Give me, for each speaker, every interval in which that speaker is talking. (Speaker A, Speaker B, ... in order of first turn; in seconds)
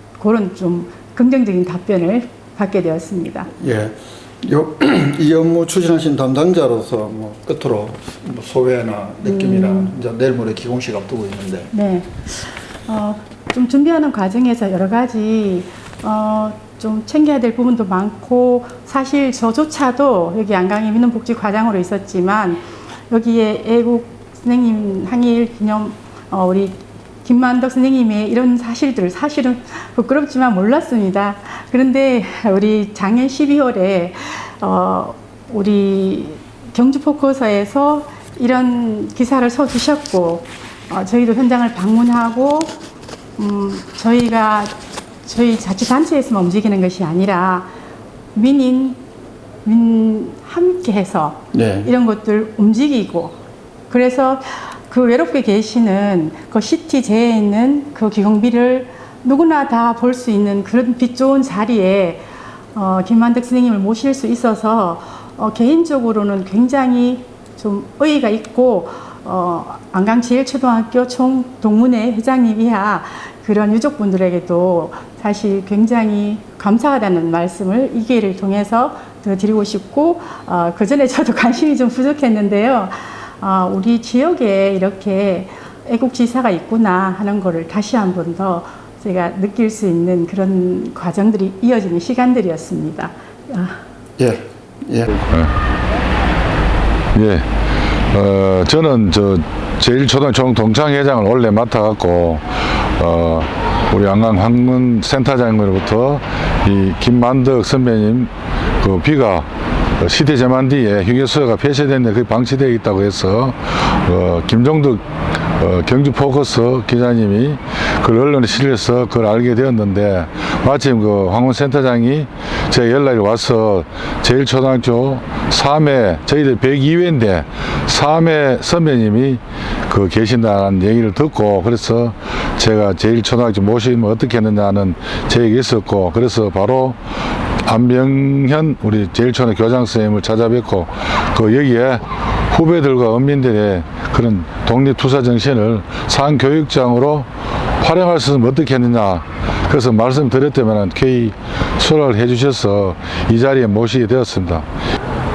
Speaker A: 0.2-3.5, 9.2-9.9, 11.7-42.7, 43.4-47.7, 48.3-49.0, 49.6-53.4, 53.9-93.8
Speaker B: 3.5-11.7, 51.5-51.9, 94.2-95.2
Speaker C: 97.1-97.5, 98.1-109.5, 110.0-137.0, 137.6-154.7